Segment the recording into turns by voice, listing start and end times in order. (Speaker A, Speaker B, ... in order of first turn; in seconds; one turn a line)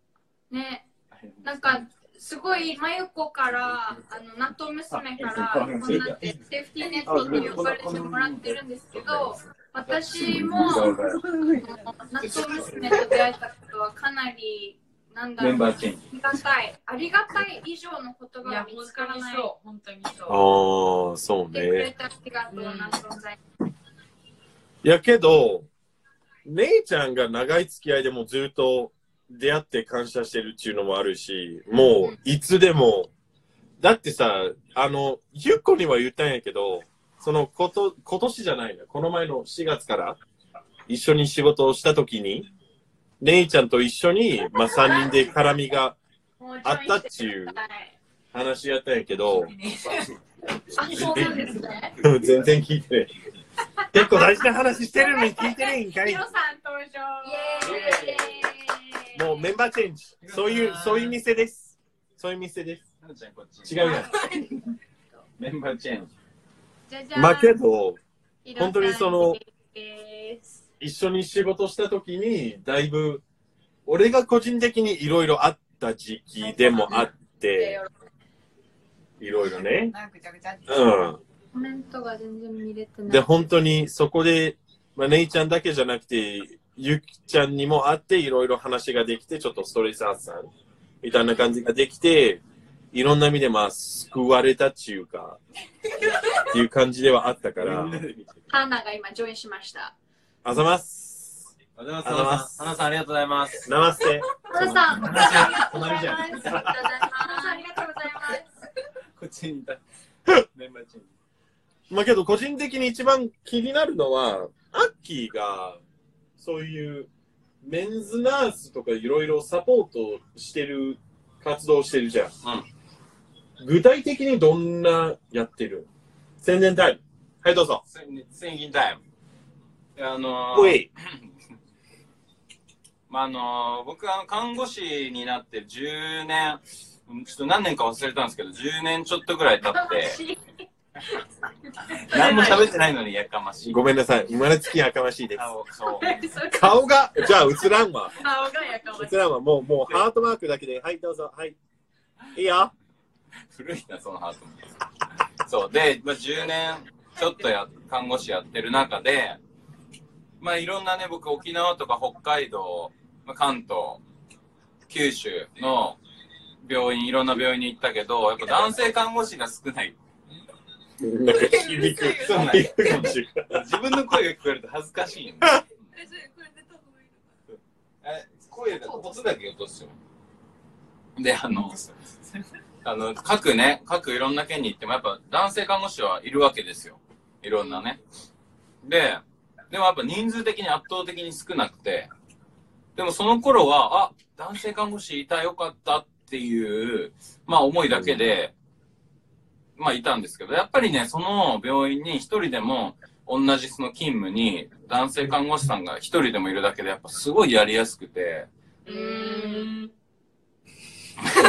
Speaker A: 0.5-0.9
Speaker B: 1.1-1.8
Speaker A: 1.4-10.9
Speaker B: 4.9-6.4
Speaker B: 7.0-11.6
Speaker A: 11.6-19.5
Speaker B: 12.2-13.1
Speaker B: 15.4-16.1
Speaker C: 18.4-20.4
Speaker D: 20.3-21.9
Speaker A: 21.5-23.4
Speaker C: 22.5-23.0
Speaker D: 24.8-25.7
Speaker D: 26.4-33.1
Speaker D: 33.8-40.2
Speaker D: 40.9-42.5
Speaker D: 43.2-46.0
Speaker A: 44.8-45.1
Speaker A: 46.4-48.0
Speaker D: 46.6-47.6
Speaker D: 48.3-49.5
Speaker C: 49.5-50.0
Speaker A: 50.8-51.9
Speaker B: 50.9-52.5
Speaker C: 50.9-51.4
Speaker D: 50.9-51.5
Speaker D: 52.0-53.1
Speaker D: 53.9-56.3
Speaker A: 53.9-58.3
Speaker C: 57.2-58.5
Speaker B: 57.6-58.5
Speaker D: 59.1-62.8
Speaker B: 60.2-61.1
Speaker B: 63.0-64.4
Speaker D: 63.6-64.1
Speaker A: 63.8-64.4
Speaker B: 65.4-66.1
Speaker A: 66.9-67.6
Speaker D: 67.1-68.0
Speaker A: 68.4-70.6
Speaker D: 68.6-69.4
Speaker D: 70.8-73.2
Speaker D: 73.9-77.8
Speaker E: 76.4-77.0
Speaker A: 76.6-77.9
Speaker D: 79.2-79.9
Speaker E: 79.3-81.0
Speaker D: 80.7-81.2
Speaker A: 81.5-83.2
Speaker D: 83.1-90.5
Speaker D: 91.0-92.4
Speaker D: 92.9-95.4
Speaker D: 96.3-98.0
Speaker B: 97.6-98.3
Speaker A: 98.5-99.9
Speaker D: 100.4-101.5
Speaker B: 101.8-103.7
Speaker D: 102.0-102.7
Speaker D: 103.7-106.7
Speaker A: 104.5-108.5
Speaker B: 104.5-106.6
Speaker C: 105.3-105.6
Speaker C: 106.1-108.4
Speaker B: 109.2-109.8
Speaker B: 110.5-111.1
Speaker D: 111.9-115.8
Speaker D: 116.4-117.1
Speaker D: 117.6-122.3
Speaker D: 123.6-125.9
Speaker D: 126.4-127.8
Speaker B: 127.9-129.0
Speaker B: 129.9-130.9
Speaker D: 130.5-130.9
Speaker B: 133.1-140.2
Speaker A: 139.7-140.4
Speaker A: 141.9-142.7
Speaker B: 142.0-143.8
Speaker D: 143.6-145.5
Speaker B: 145.4-146.3
Speaker A: 146.0-146.8
Speaker D: 146.5-148.2
Speaker A: 148.2-149.1
Speaker D: 148.9-151.6
Speaker D: 152.3-152.7
Speaker B: 153.5-154.7
Speaker B: 155.4-159.4
Speaker B: 160.4-164.0
Speaker B: 164.9-166.0
Speaker B: 166.6-169.9
Speaker D: 171.0-173.6
Speaker B: 172.2-175.6
Speaker C: 175.9-177.2
Speaker B: 178.0-179.9
Speaker B: 181.2-181.9
Speaker B: 182.8-188.0
Speaker B: 188.8-192.1
Speaker B: 192.9-198.5
Speaker D: 197.9-198.2
Speaker B: 199.8-208.5
Speaker A: 208.9-209.7
Speaker C: 208.9-209.9